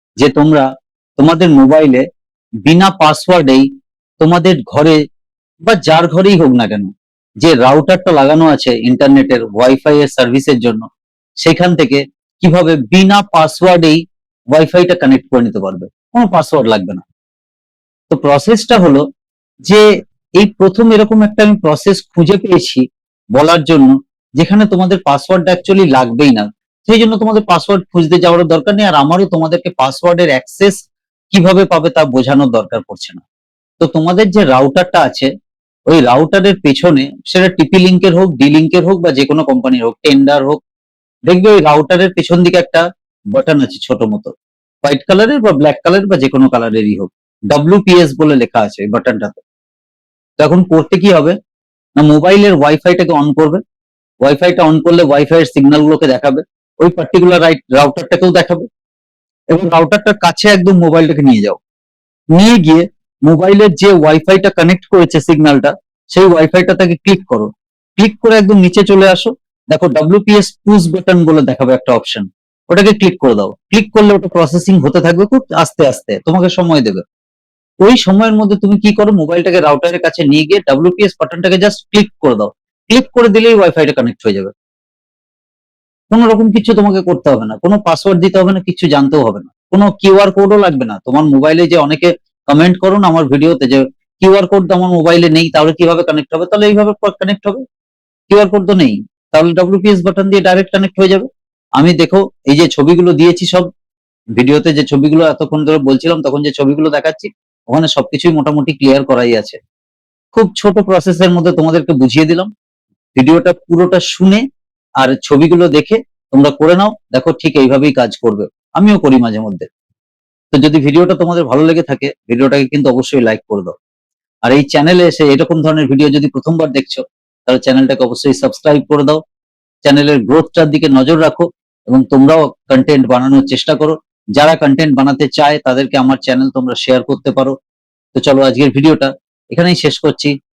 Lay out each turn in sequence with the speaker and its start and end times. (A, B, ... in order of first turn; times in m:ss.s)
0:00.2-0:00.6 A
0:01.2-0:02.0 A
0:02.6-0:03.6 A
0:04.2-0:05.0 A
0:05.6-0:06.9 A
0:07.4-0:10.8 A
0:11.4-0:14.0 A
0:14.5-0:17.0 A
0:18.1-0:19.0 A
0:20.4-0:22.8 A
0:23.3-0:33.2 A
0:33.8-0:35.3 A
0:35.9-0:40.6 A
0:41.3-0:49.4 A
0:50.4-0:51.3 A
0:52.0-0:53.6 A
0:54.2-0:58.6 A
0:59.5-1:01.6 A
1:02.3-1:17.0 A
1:17.8-1:24.5 A
1:26.1-1:37.6 A
1:38.3-1:41.3 A
1:41.8-1:43.7 A
1:44.4-1:49.6 A
1:50.3-1:52.5 A
1:53.1-1:54.4 A
1:55.0-1:59.7 A
2:00.5-2:03.7 A
2:04.4-2:09.2 A
2:09.8-2:17.5 A
2:18.1-2:20.3 A